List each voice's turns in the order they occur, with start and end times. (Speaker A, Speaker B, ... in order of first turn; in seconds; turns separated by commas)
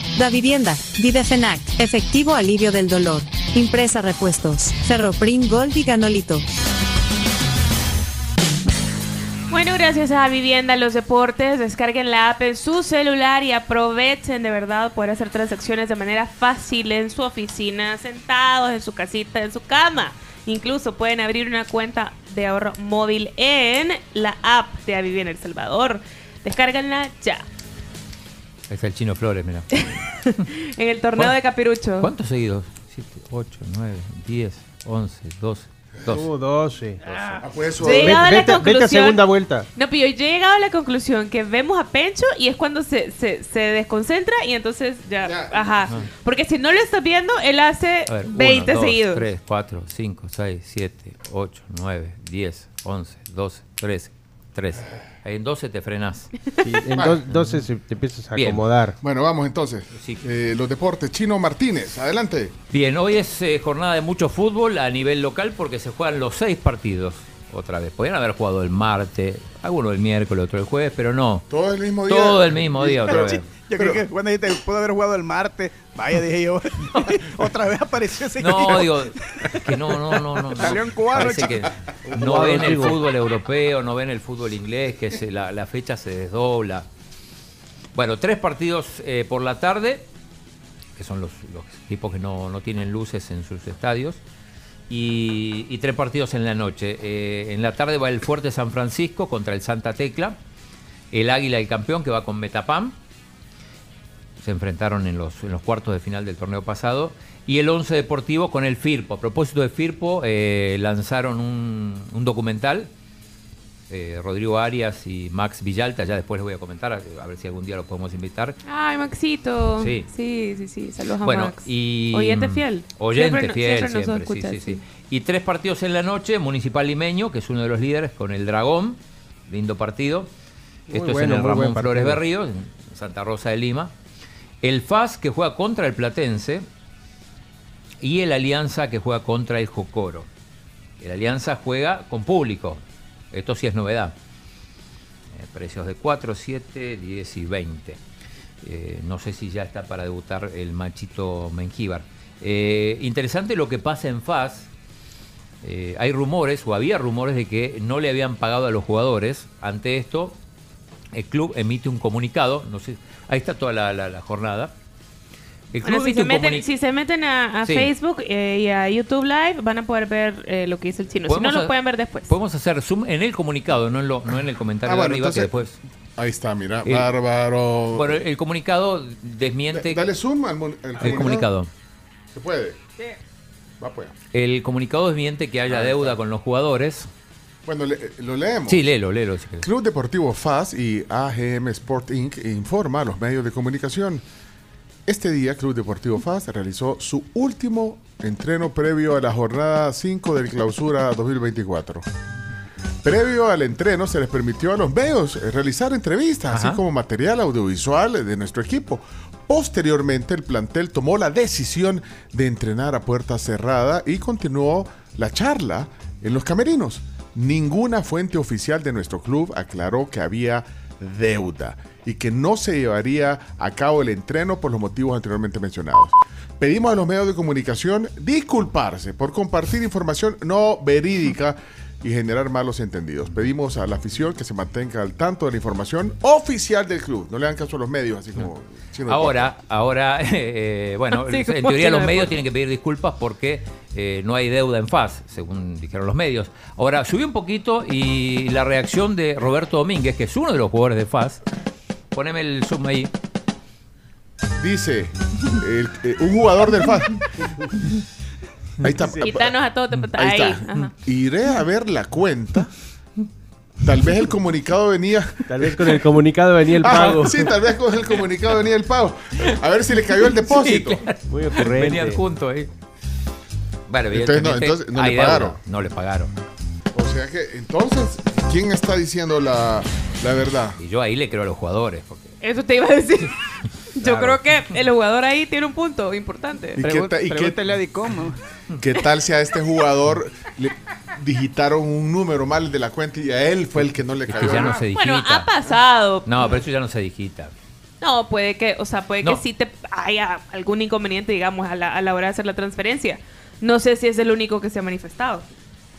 Speaker A: 0.1-6.5, Speaker B: 9.5-27.4, Speaker C: 28.7-30.5, Speaker B: 29.8-32.1, Speaker C: 32.0-36.3, Speaker D: 36.1-37.0, Speaker C: 37.0-37.4, Speaker E: 37.4-38.4, Speaker B: 37.8-39.2, Speaker D: 37.8-39.7, Speaker B: 39.8-49.3, Speaker E: 45.2-46.0, Speaker C: 48.1-56.3, Speaker D: 56.6-59.0, Speaker E: 57.0-57.2, Speaker C: 57.3-57.6, Speaker C: 58.4-58.6, Speaker E: 59.0-62.5, Speaker C: 59.9-60.2, Speaker C: 62.7-71.5, Speaker E: 71.5-74.0, Speaker C: 72.1-73.4, Speaker F: 73.1-83.0, Speaker C: 78.4-86.9, Speaker D: 82.1-83.0, Speaker C: 88.0-90.0, Speaker C: 91.0-94.2, Speaker C: 94.9-100.4, Speaker C: 101.1-103.0, Speaker C: 104.4-112.9, Speaker C: 113.9-118.6, Speaker B: 118.7-124.8, Speaker C: 119.8-120.1, Speaker C: 121.2-130.3, Speaker D: 130.9-132.2, Speaker C: 130.9-133.9, Speaker C: 134.6-136.7, Speaker C: 138.0-140.3, Speaker C: 141.0-142.8, Speaker C: 143.3-144.2, Speaker C: 145.3-148.0, Speaker C: 148.6-154.7, Speaker C: 155.6-160.4, Speaker C: 161.1-164.7, Speaker C: 165.7-166.7, Speaker B: 165.8-172.3, Speaker C: 167.7-167.9, Speaker C: 171.3-171.8, Speaker C: 172.3-175.8, Speaker E: 174.8-178.2, Speaker C: 177.9-180.0, Speaker E: 179.7-181.5, Speaker C: 181.0-181.7, Speaker E: 182.3-182.8, Speaker E: 183.8-184.1, Speaker C: 184.3-187.1, Speaker E: 185.7-186.2, Speaker E: 187.7-188.9, Speaker C: 188.7-189.7, Speaker E: 189.6-194.2, Speaker E: 195.1-202.1, Speaker E: 203.0-239.5, Speaker C: 206.5-206.8, Speaker C: 239.1-251.4, Speaker B: 241.1-242.3, Speaker C: 252.1-253.1, Speaker E: 254.6-257.8, Speaker E: 258.8-259.6, Speaker B: 259.2-260.9, Speaker E: 260.2-262.7, Speaker E: 263.8-265.9, Speaker D: 265.5-267.5, Speaker E: 266.8-271.1, Speaker C: 270.5-272.7, Speaker D: 271.3-272.2, Speaker C: 273.9-276.3, Speaker E: 274.1-275.6, Speaker E: 276.9-280.8, Speaker C: 280.8-282.4, Speaker B: 282.4-283.4, Speaker B: 284.0-286.8, Speaker C: 284.0-284.4, Speaker E: 286.8-287.8, Speaker F: 286.8-288.4, Speaker E: 288.8-294.8, Speaker C: 294.3-295.5, Speaker B: 294.4-296.6, Speaker C: 296.2-297.5, Speaker B: 298.0-305.5